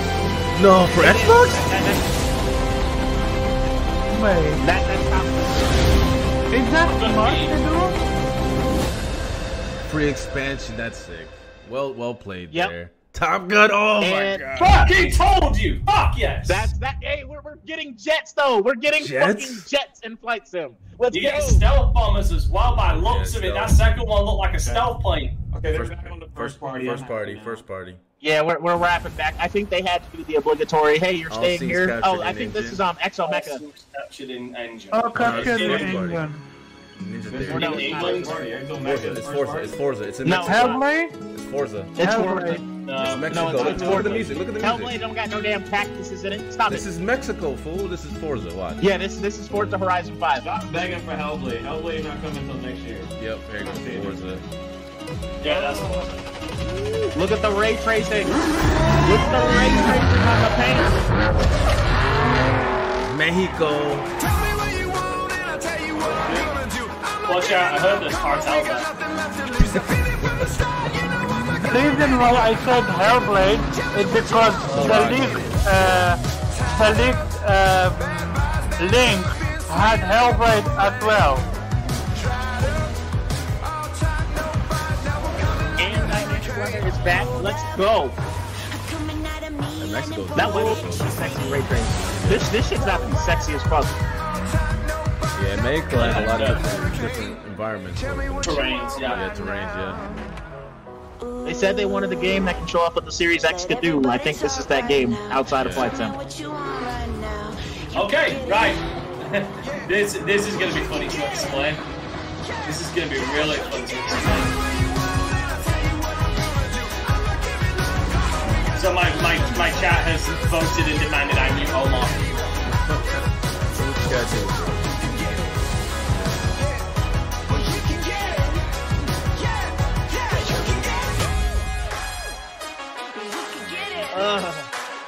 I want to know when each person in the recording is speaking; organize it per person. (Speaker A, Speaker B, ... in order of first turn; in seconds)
Speaker A: 0.5-1.7, 9.9-14.5, 18.9-19.7, 22.9-23.8, 25.7-28.0, 31.3-32.8, 35.2-36.3, 37.0-38.3, 38.8-40.8, 41.3-42.0, 43.0-45.0, 46.7-48.8, 53.2-54.4, 63.0-64.1, 69.7-70.3, 74.6-75.6, 89.8-91.2, 91.9-92.5, 95.3-100.1, 105.6-106.0, 122.6-125.5, 126.1-126.6, 133.7-134.5
Speaker B: 1.0-2.0, 4.6-5.9, 14.0-14.8, 16.5-21.6, 28.2-33.6, 37.5-38.4, 40.2-40.6, 42.0-42.6, 43.3-46.9, 48.8-50.5, 57.1-58.3, 59.0-61.0, 85.8-88.2, 90.3-94.0, 101.4-106.2, 134.1-134.7
Speaker C: 4.1-4.6, 6.5-8.0, 34.9-36.4, 40.4-41.2, 42.0-42.6, 71.6-81.5
Speaker D: 6.9-7.6, 14.6-16.7, 21.1-25.3, 33.2-35.9, 37.6-38.4, 40.5-40.8, 42.9-44.1, 55.4-56.1, 67.3-68.9, 95.9-96.7, 98.4-99.2, 107.9-111.8, 112.6-114.6, 118.7-122.3
Speaker E: 24.6-24.9, 25.5-27.7, 35.7-35.9, 37.3-39.8, 50.4-54.2, 66.2-66.6